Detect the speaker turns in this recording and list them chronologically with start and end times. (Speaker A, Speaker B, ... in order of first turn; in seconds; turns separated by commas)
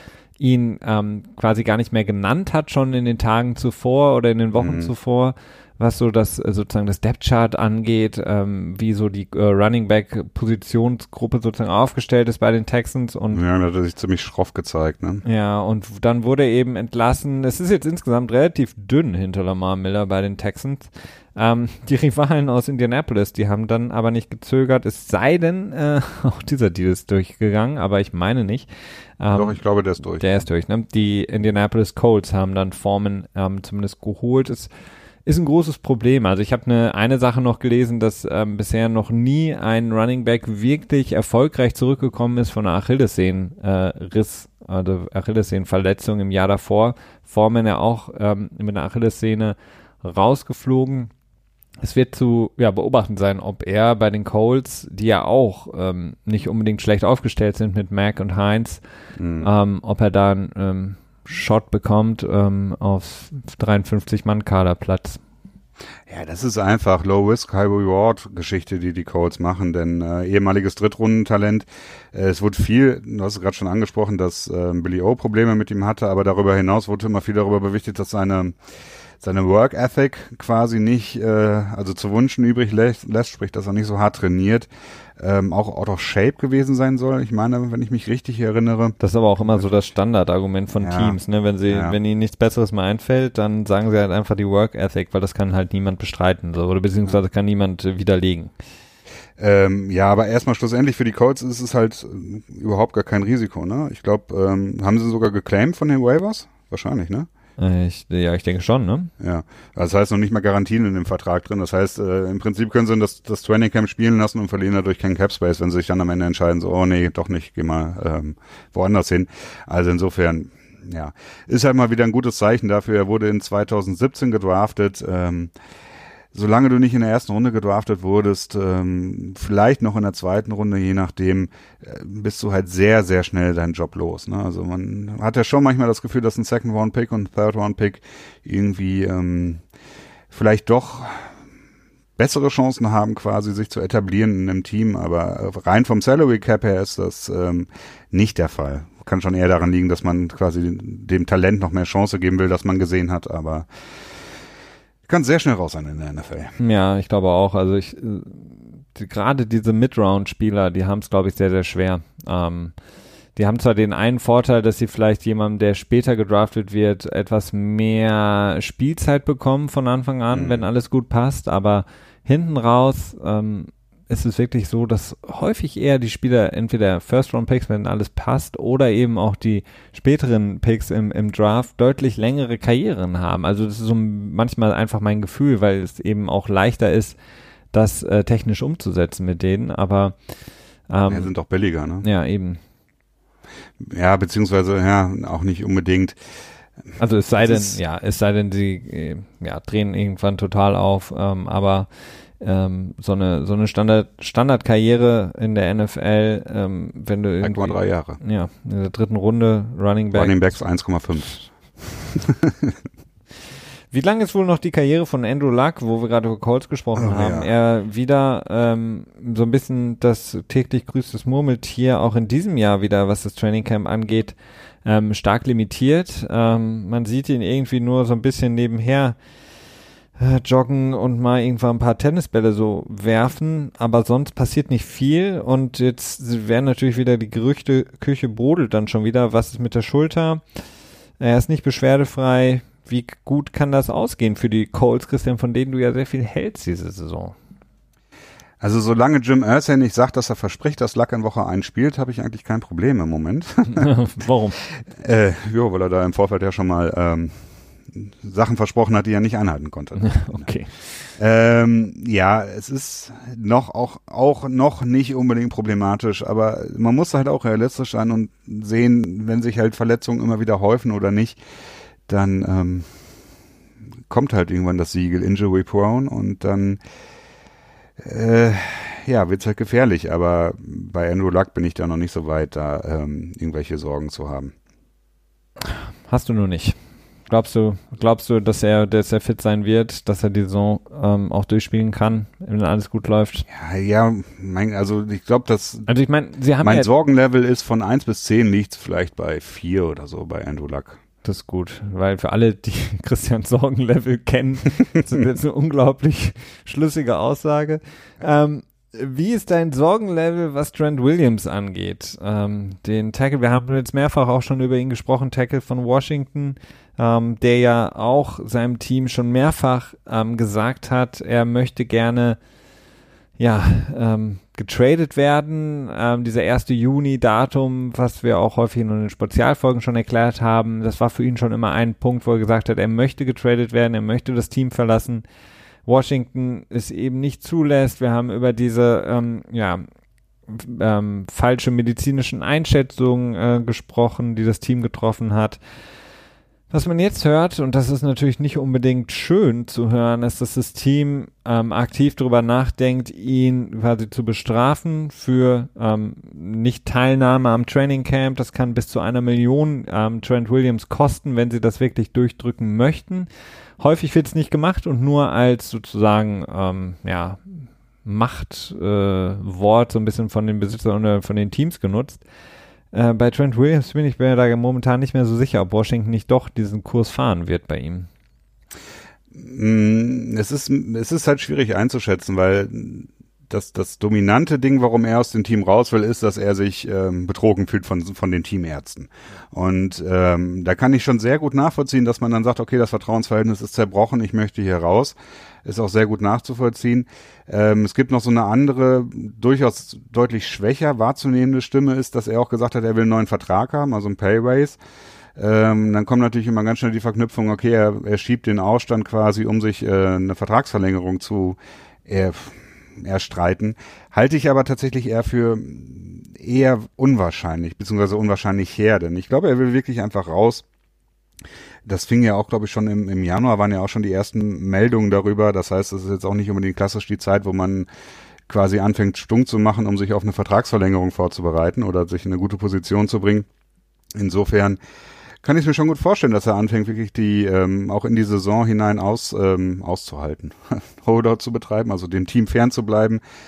Speaker A: 0.4-13.4, Speaker B: 4.5-4.9, Speaker B: 13.3-15.2, Speaker A: 15.2-28.7, Speaker A: 29.2-29.6, Speaker B: 29.3-30.4, Speaker A: 30.2-34.7, Speaker A: 35.2-51.1, Speaker A: 51.8-58.8, Speaker B: 59.2-59.5, Speaker A: 59.4-65.2, Speaker B: 66.1-78.6, Speaker B: 79.2-89.0, Speaker A: 89.0-98.5, Speaker B: 90.8-92.0, Speaker B: 99.4-107.3, Speaker A: 107.6-109.1, Speaker B: 109.2-125.5, Speaker B: 126.3-139.6, Speaker B: 140.3-141.3, Speaker B: 142.2-153.7, Speaker B: 155.1-156.6, Speaker A: 156.6-162.7, Speaker A: 163.4-187.2, Speaker B: 170.3-170.6, Speaker A: 187.7-190.1, Speaker A: 190.9-191.3, Speaker B: 191.1-192.1, Speaker A: 192.0-192.6, Speaker B: 193.8-196.2, Speaker A: 197.0-201.9, Speaker B: 197.4-197.8, Speaker A: 202.4-210.6, Speaker B: 207.4-208.2, Speaker B: 210.1-212.7, Speaker A: 213.9-229.2, Speaker B: 216.9-217.5, Speaker A: 230.2-240.4, Speaker A: 241.2-247.3, Speaker B: 248.6-253.9, Speaker A: 253.7-254.6, Speaker B: 254.8-257.4, Speaker B: 257.9-260.5, Speaker A: 260.0-260.7, Speaker B: 261.2-271.4, Speaker B: 272.1-272.9, Speaker B: 274.1-276.8, Speaker B: 278.0-284.5, Speaker A: 285.6-286.8, Speaker A: 287.3-293.4, Speaker B: 293.5-295.9, Speaker A: 295.9-296.9, Speaker B: 296.6-301.0, Speaker A: 301.2-322.4, Speaker A: 323.4-335.2, Speaker A: 335.9-339.8, Speaker A: 340.5-345.6, Speaker A: 346.7-363.3, Speaker A: 363.8-372.2, Speaker A: 372.9-378.1, Speaker B: 379.3-404.8, Speaker B: 405.4-420.6, Speaker B: 421.9-427.9, Speaker B: 428.5-433.5, Speaker B: 434.1-434.8, Speaker B: 435.4-443.2